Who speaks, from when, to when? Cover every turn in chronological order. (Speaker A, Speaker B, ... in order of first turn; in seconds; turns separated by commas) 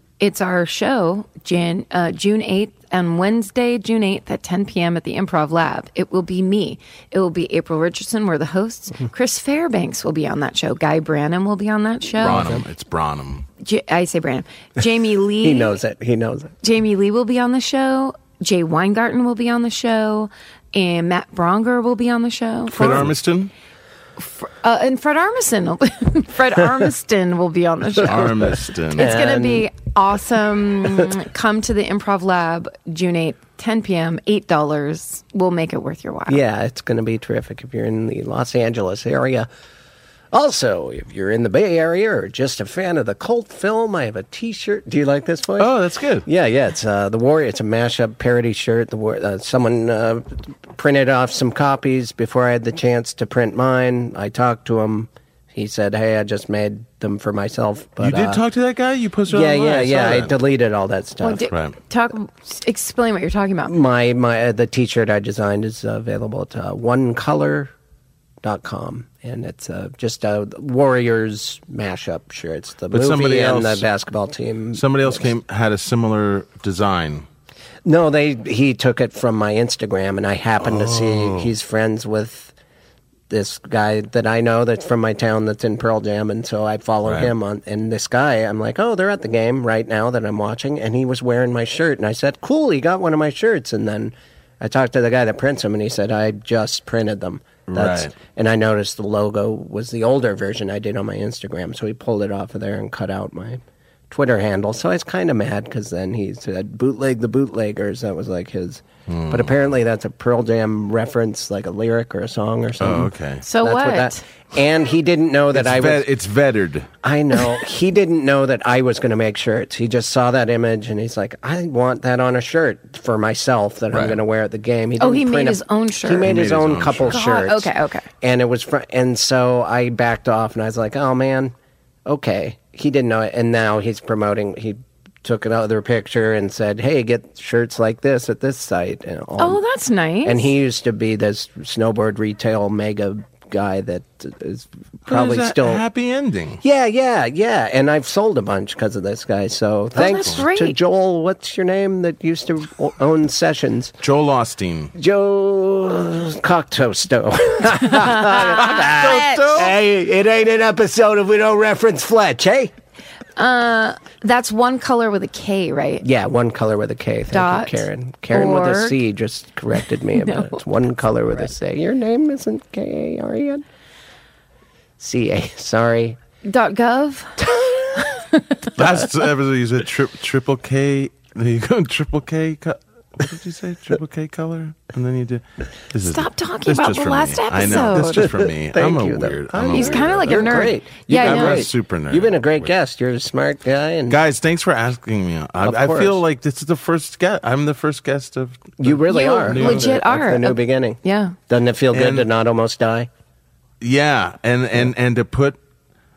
Speaker A: 0.2-12.5, Speaker B: 12.2-13.5, Speaker C: 12.3-12.6, Speaker A: 13.6-15.8, Speaker C: 15.4-16.5, Speaker A: 16.6-23.1, Speaker B: 22.7-23.5, Speaker C: 22.8-23.1, Speaker A: 24.2-36.4, Speaker B: 28.0-29.1, Speaker C: 28.9-29.7, Speaker C: 36.3-39.5, Speaker C: 40.3-45.7, Speaker B: 45.6-46.3, Speaker C: 46.2-58.4, Speaker B: 58.0-60.3, Speaker C: 59.3-61.5, Speaker A: 61.2-63.7, Speaker B: 61.5-61.8, Speaker C: 63.7-67.7, Speaker C: 68.4-75.3, Speaker B: 72.9-73.8, Speaker B: 74.8-77.3, Speaker C: 77.8-82.5, Speaker B: 80.6-81.5, Speaker C: 83.3-116.0, Speaker B: 87.1-87.3, Speaker B: 97.7-98.1, Speaker B: 109.1-109.5, Speaker B: 112.8-113.5, Speaker A: 113.4-114.2, Speaker B: 115.5-116.9, Speaker C: 117.0-131.5, Speaker B: 123.9-124.2, Speaker A: 125.0-126.3, Speaker B: 126.2-127.2, Speaker A: 127.1-128.1, Speaker C: 132.1-139.6, Speaker A: 139.4-140.5, Speaker C: 140.2-145.8, Speaker B: 145.1-146.6, Speaker C: 146.6-153.9, Speaker A: 149.9-150.8, Speaker B: 150.0-150.4, Speaker B: 154.0-154.9, Speaker C: 154.9-162.7, Speaker A: 158.0-159.5, Speaker B: 158.4-159.7, Speaker A: 163.4-166.1, Speaker C: 166.0-173.6, Speaker A: 167.3-169.0, Speaker A: 170.2-170.6, Speaker C: 175.0-176.2, Speaker A: 176.4-177.5, Speaker C: 177.4-178.0, Speaker A: 178.0-178.6, Speaker B: 178.8-192.7, Speaker A: 186.0-188.3, Speaker C: 188.2-194.2, Speaker A: 189.7-191.7, Speaker B: 194.1-200.0, Speaker C: 195.6-196.2, Speaker C: 198.8-201.0, Speaker A: 199.1-201.4, Speaker C: 201.5-203.1, Speaker B: 201.9-202.3, Speaker B: 203.8-205.6